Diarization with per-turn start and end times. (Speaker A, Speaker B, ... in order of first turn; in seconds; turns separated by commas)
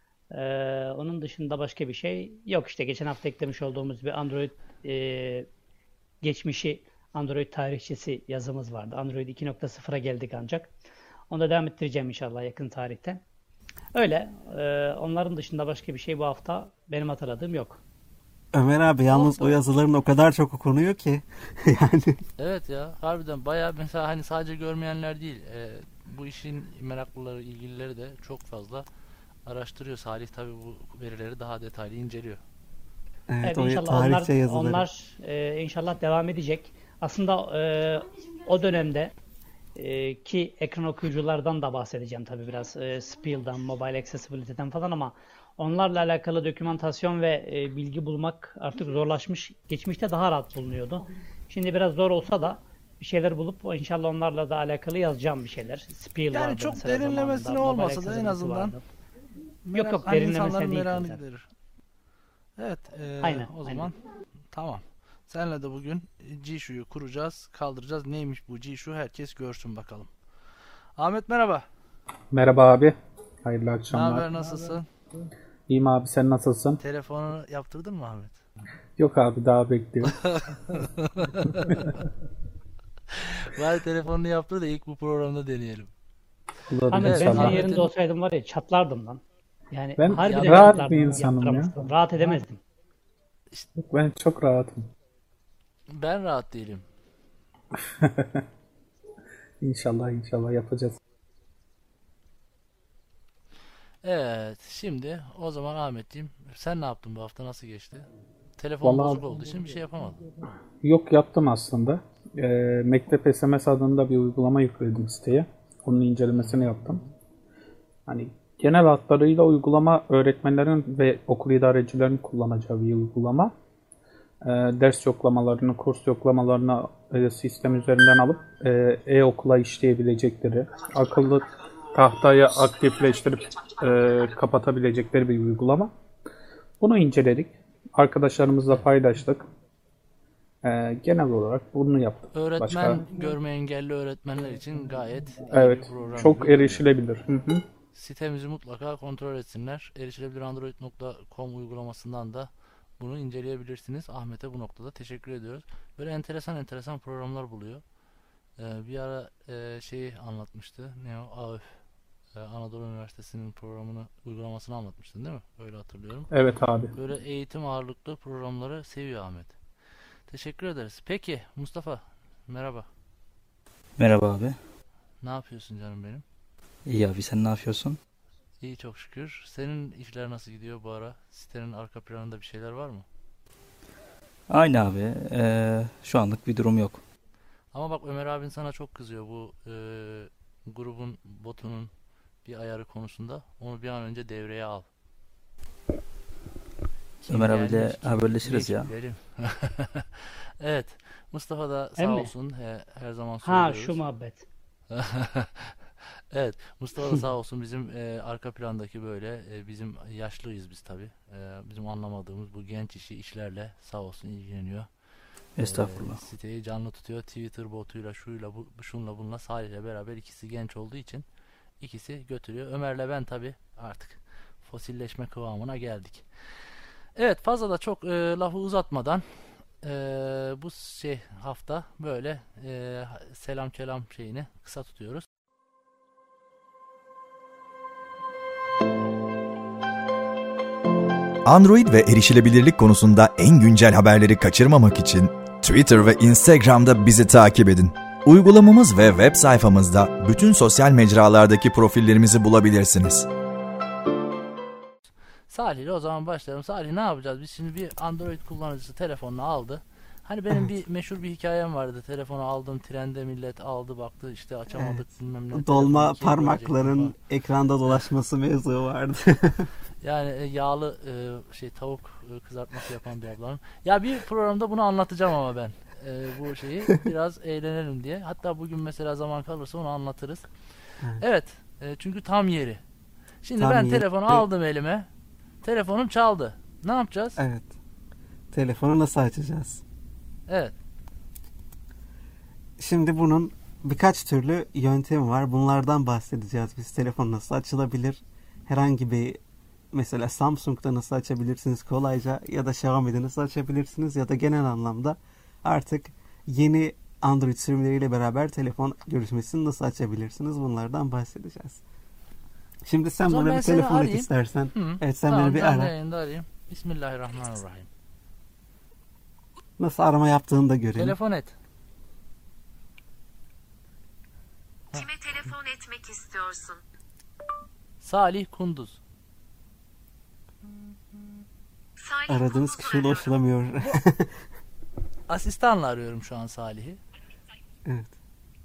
Speaker A: 0.3-5.5, Speaker A: 6.2-10.7, Speaker A: 11.3-13.2, Speaker A: 13.9-17.8, Speaker B: 18.5-22.2, Speaker A: 19.1-19.4, Speaker C: 22.4-28.8, Speaker C: 29.4-32.4, Speaker B: 33.3-34.9, Speaker A: 33.4-39.1, Speaker A: 39.8-58.9, Speaker C: 56.3-58.7, Speaker C: 59.6-61.5, Speaker A: 59.7-61.2, Speaker C: 62.6-63.9, Speaker A: 63.2-63.9, Speaker C: 64.5-70.1, Speaker C: 71.0-71.7, Speaker D: 72.3-74.3, Speaker C: 73.9-74.9, Speaker D: 75.7-76.8, Speaker C: 76.8-78.4, Speaker D: 79.0-80.2, Speaker C: 80.1-81.9, Speaker C: 83.1-85.9, Speaker D: 86.7-87.7, Speaker A: 86.9-92.6, Speaker C: 86.9-87.9, Speaker D: 90.0-91.8, Speaker C: 90.2-90.8, Speaker D: 93.8-94.9, Speaker C: 95.9-96.8, Speaker D: 98.0-98.4, Speaker D: 99.6-101.0, Speaker C: 104.0-110.2, Speaker D: 108.8-109.7, Speaker D: 110.8-117.0, Speaker D: 118.1-123.5, Speaker D: 124.4-135.9, Speaker D: 136.8-139.5, Speaker D: 140.6-143.1, Speaker C: 142.3-146.8, Speaker D: 145.5-147.6, Speaker C: 147.9-157.8, Speaker C: 158.6-161.8, Speaker C: 162.3-166.3, Speaker D: 166.3-166.9, Speaker C: 166.9-169.5, Speaker C: 170.3-172.9, Speaker E: 174.0-174.6, Speaker C: 175.2-176.2, Speaker E: 176.8-178.0, Speaker C: 178.6-183.0, Speaker E: 184.5-187.0, Speaker C: 187.7-191.9, Speaker C: 192.4-194.8, Speaker C: 197.2-204.0, Speaker E: 197.3-198.9, Speaker A: 202.0-202.3, Speaker A: 203.4-204.4, Speaker C: 204.9-205.8, Speaker C: 206.3-214.9, Speaker E: 215.6-216.2, Speaker C: 215.6-221.2, Speaker C: 221.8-226.2, Speaker C: 227.2-229.2, Speaker C: 229.8-235.2, Speaker F: 241.4-253.2, Speaker C: 255.5-267.1, Speaker B: 264.7-269.7, Speaker C: 270.0-280.5, Speaker C: 281.2-282.8, Speaker C: 283.4-285.1, Speaker B: 283.6-284.4, Speaker C: 285.6-287.4, Speaker B: 287.4-287.7, Speaker B: 288.5-289.8, Speaker C: 290.5-290.7, Speaker B: 292.8-299.4, Speaker B: 299.9-311.8, Speaker B: 312.8-315.9, Speaker C: 313.2-317.9, Speaker B: 319.8-321.2, Speaker C: 321.0-321.5, Speaker C: 324.9-325.5, Speaker G: 325.1-326.8, Speaker C: 328.0-329.0, Speaker G: 332.0-332.3, Speaker B: 332.2-334.3, Speaker C: 335.3-337.0, Speaker B: 337.8-338.1